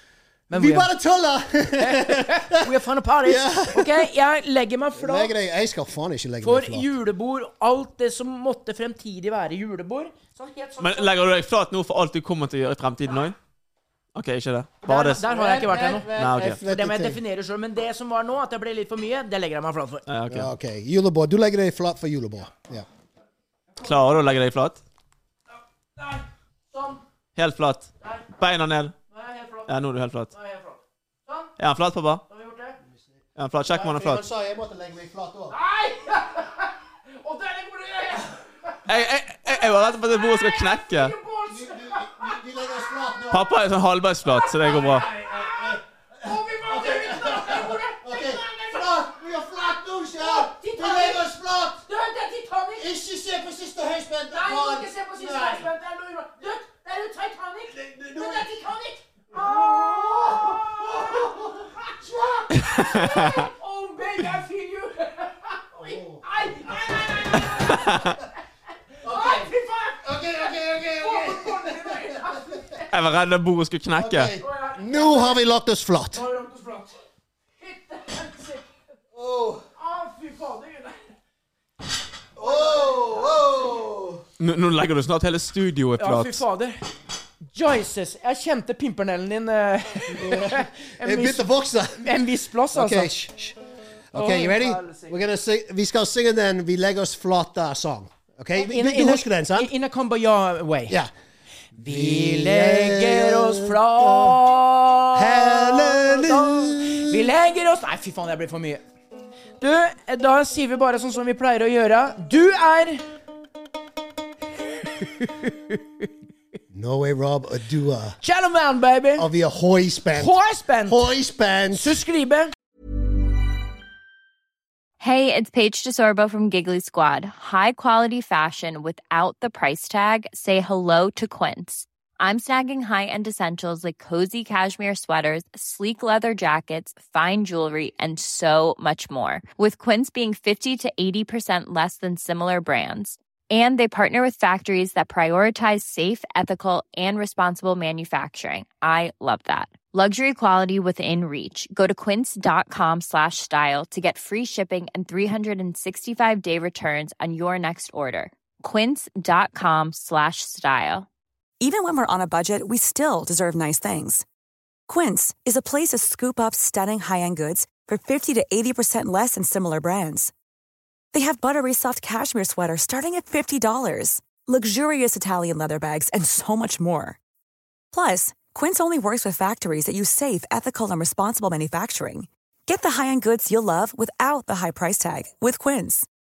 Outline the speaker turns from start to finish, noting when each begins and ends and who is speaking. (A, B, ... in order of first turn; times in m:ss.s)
0:00.5-0:00.9 A
0:00.5-0:02.7 B
0:01.8-0:05.3 A
0:03.2-0:04.1 B
0:04.9-0:06.9 B
0:06.4-0:11.1 A
0:10.8-0:13.4 C
0:14.1-0:15.2 C
0:14.8-0:17.2 B
0:14.9-0:20.0 A
0:16.1-0:16.6 C
0:20.1-0:20.5 C
0:20.3-0:22.8 B
0:23.8-0:24.8 C
0:26.0-0:27.0 A
0:27.4-0:28.9 C
0:29.1-0:29.8 A
0:29.7-0:30.3 C
0:30.3-0:31.5 A
0:31.6-0:32.2 C
0:32.3-0:32.8 A
0:33.4-0:34.2 C
0:33.6-0:35.6 B
0:35.5-0:38.9 A
0:38.9-0:41.1 C
0:39.4-0:42.4 A
0:41.5-0:43.5 B
0:43.3-0:45.1 C
0:44.2-0:49.2 A
0:44.9-0:51.8 B
0:50.2-0:51.2 A
0:51.8-0:52.9 A
0:52.8-0:55.7 B
0:54.3-1:08.3 A
0:57.7-0:58.6 B
0:59.3-1:03.2 B
1:05.8-1:07.9 B
1:09.0-1:12.8 A
1:09.0-1:12.6 B
1:12.9-1:14.3 C
1:14.0-1:16.2 B
1:14.4-1:15.4 A
1:16.1-1:17.0 A
1:17.6-1:18.7 A
1:19.1-1:19.6 B
1:19.8-1:21.1 A
1:22.4-1:24.2 B
1:22.4-1:23.4 A
1:24.4-1:26.4 C
1:26.0-1:26.8 A
1:27.5-1:33.1 A
1:30.1-1:32.1 B
1:32.7-1:33.6 B
1:34.1-1:39.7 B
1:34.1-1:35.1 A
1:38.6-1:41.0 A
1:41.7-1:48.8 A
1:41.8-1:44.4 B
1:45.1-1:47.3 B
1:49.6-1:53.0 A
1:54.8-1:56.1 A
1:56.7-1:58.2 B
1:58.2-1:59.3 A
1:59.2-2:02.0 B
2:00.1-2:01.0 A
2:01.7-2:02.5 A
2:05.0-2:41.1 D
2:41.6-2:44.2 E
2:44.9-2:50.3 E
2:51.1-2:57.2 E
2:57.9-3:06.1 E